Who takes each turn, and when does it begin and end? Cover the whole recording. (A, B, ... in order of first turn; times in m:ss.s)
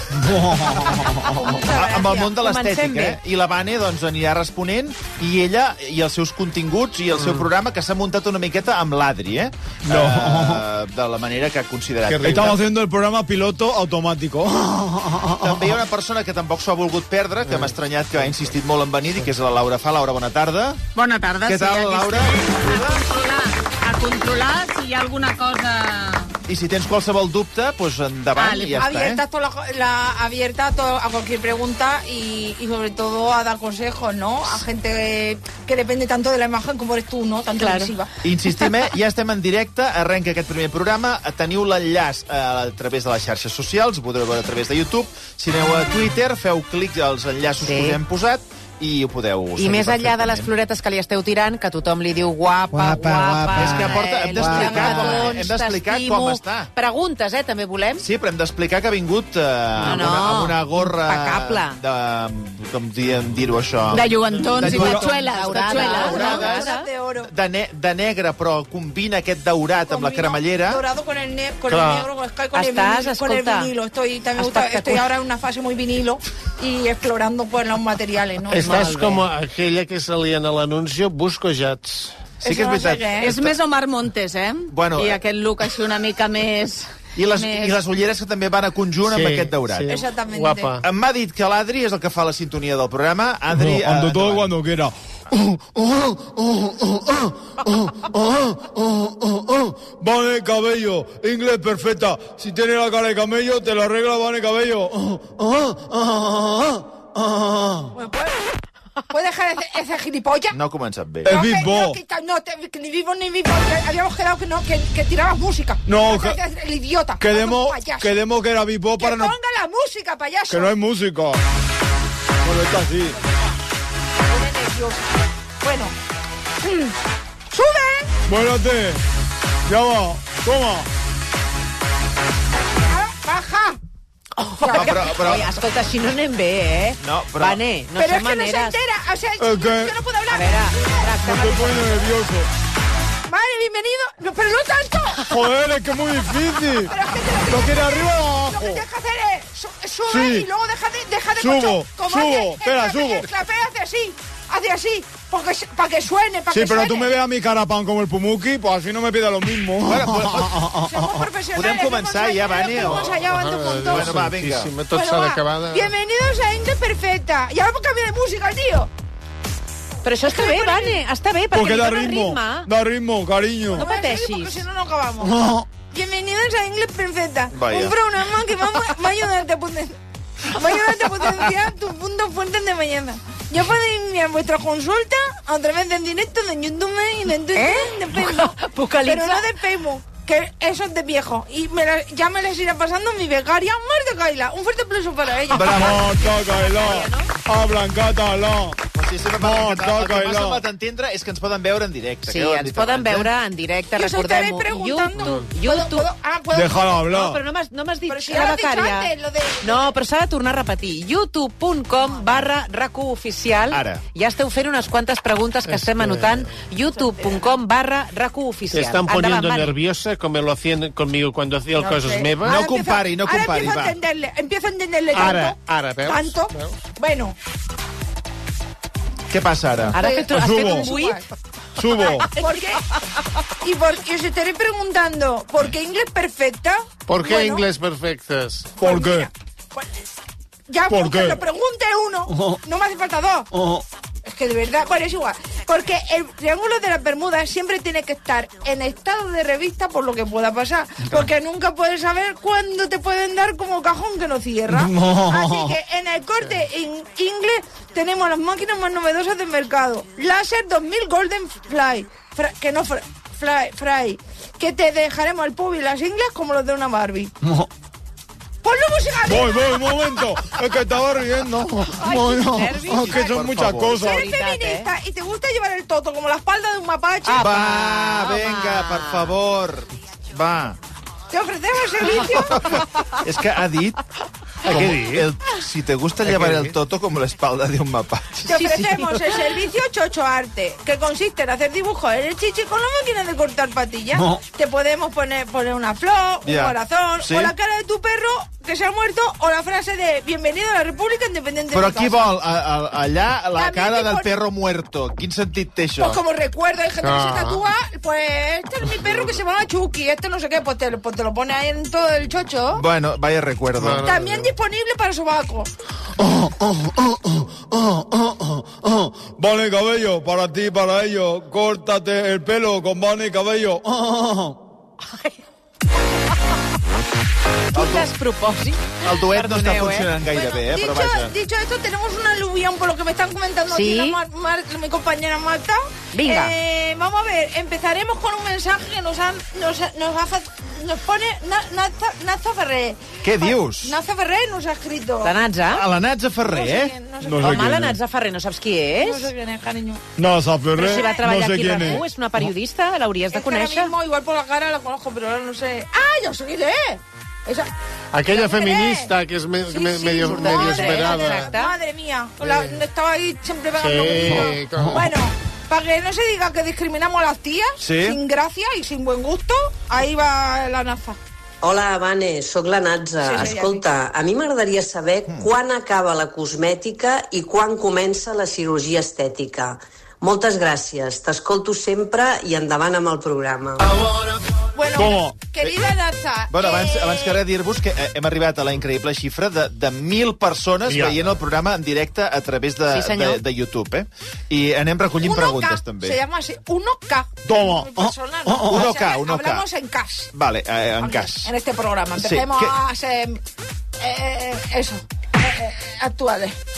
0:00.2-0:12.6 A
0:00.3-0:01.2 B
0:01.0-0:02.3 C
0:02.3-0:03.2 D
0:07.2-0:07.4 E
0:09.9-0:10.6 B
0:12.1-0:12.5 E
0:12.2-0:15.7 B
0:15.3-0:20.8 A
0:17.4-0:17.7 E
0:20.9-0:26.3 F
0:21.4-0:23.0 A
0:26.5-0:29.2 A
0:28.4-0:28.9 F
0:28.8-0:38.1 C
0:37.6-0:37.9 F
0:38.2-0:50.5 A
0:47.6-0:48.0 D
0:49.6-0:58.0 D
0:52.7-0:53.7 B
0:53.4-0:56.7 A
0:54.4-0:55.0 B
0:58.0-1:10.8 A
0:59.8-1:00.1 E
0:59.8-1:01.8 D
1:03.9-1:06.5 F
1:04.6-1:06.9 D
1:04.7-1:05.1 B
1:05.7-1:07.3 C
1:09.9-1:19.0 C
1:11.7-1:12.1 E
1:12.5-1:13.7 D
1:14.4-1:15.1 D
1:18.5-1:22.3 E
1:22.4-1:23.3 C
1:22.4-1:23.5 A
1:23.2-1:27.8 F
1:24.7-1:25.2 A
1:27.2-1:29.9 A
1:29.0-1:30.8 E
1:29.9-1:30.8 C
1:30.8-1:34.5 A
1:33.5-1:47.9 B
1:47.9-1:48.4 C
1:49.1-1:50.6 C
1:50.5-1:51.3 A
1:51.2-1:52.0 B
1:51.3-1:58.2 C
1:55.9-1:56.4 B
1:57.2-1:59.3 B
1:58.9-2:00.7 C
2:00.5-2:01.4 B
2:02.4-2:03.2 B
2:04.3-2:05.1 C
2:05.6-2:05.9 C
2:06.6-2:06.9 C
2:07.5-2:08.1 C
2:08.3-2:09.0 B
2:09.6-2:10.9 B
2:12.8-2:13.8 C
2:14.4-2:18.8 D
2:14.6-2:15.1 C
2:14.7-2:15.5 A
2:17.0-2:17.6 A
2:18.0-2:21.2 C
2:19.4-2:20.0 B
2:20.3-2:22.0 D
2:21.2-2:22.5 B
2:23.3-2:25.4 C
2:25.3-2:26.9 B
2:26.7-2:37.1 C
2:27.5-2:28.8 B
2:30.1-2:30.5 B
2:31.4-2:33.3 B
2:36.5-2:41.3 B
2:39.8-2:40.7 A
2:40.7-2:44.1 C
2:41.5-2:43.2 A
2:42.8-2:45.9 E
2:43.9-2:44.8 A
2:44.9-2:48.9 C
2:50.0-2:52.7 D
2:50.2-2:51.0 C
2:51.5-2:53.8 B
2:53.7-3:15.9 C
2:53.7-2:54.6 D
2:57.5-2:57.9 A
3:07.6-3:09.5 D
3:15.5-3:16.1 A
3:15.5-3:18.8 B
3:15.8-3:17.3 D
3:18.9-3:23.3 A
3:19.4-3:20.6 B
3:22.3-3:26.1 D
3:23.9-3:27.1 C
3:25.2-3:25.4 E
3:26.5-3:27.4 B
3:27.1-3:29.1 D
3:28.1-3:30.0 C
3:29.6-3:39.7 D
3:33.7-3:34.0 A
3:35.7-3:36.4 E
3:37.1-3:37.5 C
3:38.7-3:42.6 E
3:41.8-3:47.4 C
3:42.4-3:44.0 A
3:45.1-3:45.5 A
3:45.1-3:46.8 E
3:49.3-3:50.0 A
3:49.9-3:51.2 D
3:49.9-3:51.2 C
3:50.3-3:51.0 B
3:51.8-3:52.3 B
3:52.0-3:52.9 C
3:53.6-3:57.6 C
3:57.1-3:58.8 E
3:58.8-3:59.8 C
3:58.8-3:59.3 B
4:00.7-4:03.5 C
4:00.9-4:01.4 B
4:02.3-4:02.6 B
4:03.5-4:03.8 B
4:04.2-4:27.3 C
4:14.7-4:15.7 B
4:28.6-4:30.2 C
4:29.3-4:34.2 B
4:31.9-4:34.9 D
4:32.9-4:34.2 A
4:34.0-4:37.6 C
4:37.2-4:39.3 D
4:37.4-4:40.8 A
4:41.3-4:42.8 C
4:42.6-4:44.0 A
4:44.6-4:48.8 A
4:44.7-4:45.3 E
4:46.2-4:46.7 E
4:48.5-5:02.3 C
4:48.5-4:49.3 D
4:56.4-4:57.5 A
5:01.7-5:06.2 A
5:03.5-5:04.3 C
5:06.0-5:12.8 C
5:07.0-5:07.6 E
5:12.7-5:14.1 A
5:13.8-5:14.5 E
5:14.0-5:15.7 C
5:16.3-5:24.6 B
5:27.7-5:28.1 A
5:27.7-5:30.1 D
5:29.0-5:31.3 A
5:30.3-5:45.4 C
5:33.7-5:34.2 D
5:36.1-5:36.5 D
5:43.2-5:44.0 A
5:45.2-5:45.8 D
5:45.7-5:46.9 A
5:46.4-5:47.7 C
5:47.2-5:48.0 B
5:47.4-5:49.3 D
5:49.0-5:50.0 C
5:50.2-5:52.0 B
5:50.7-5:53.9 D
5:50.8-5:52.0 C
5:53.3-5:57.7 C
5:58.1-6:01.5 E
5:58.2-5:59.1 C
5:59.6-6:11.2 C
6:00.2-6:01.7 D
6:02.4-6:02.7 E
6:03.8-6:05.1 E
6:07.8-6:08.2 A
6:11.6-6:24.0 G
6:13.2-6:13.8 C
6:24.7-6:27.4 C
6:25.0-6:25.4 B
6:26.5-6:36.2 A
6:30.9-6:31.4 E
6:32.9-6:33.4 D
6:35.2-6:40.3 C
6:37.4-6:38.7 B
6:38.6-6:39.6 A
6:40.3-6:41.5 A
6:41.0-6:43.4 C
6:42.1-6:42.7 A
6:44.0-6:46.6 C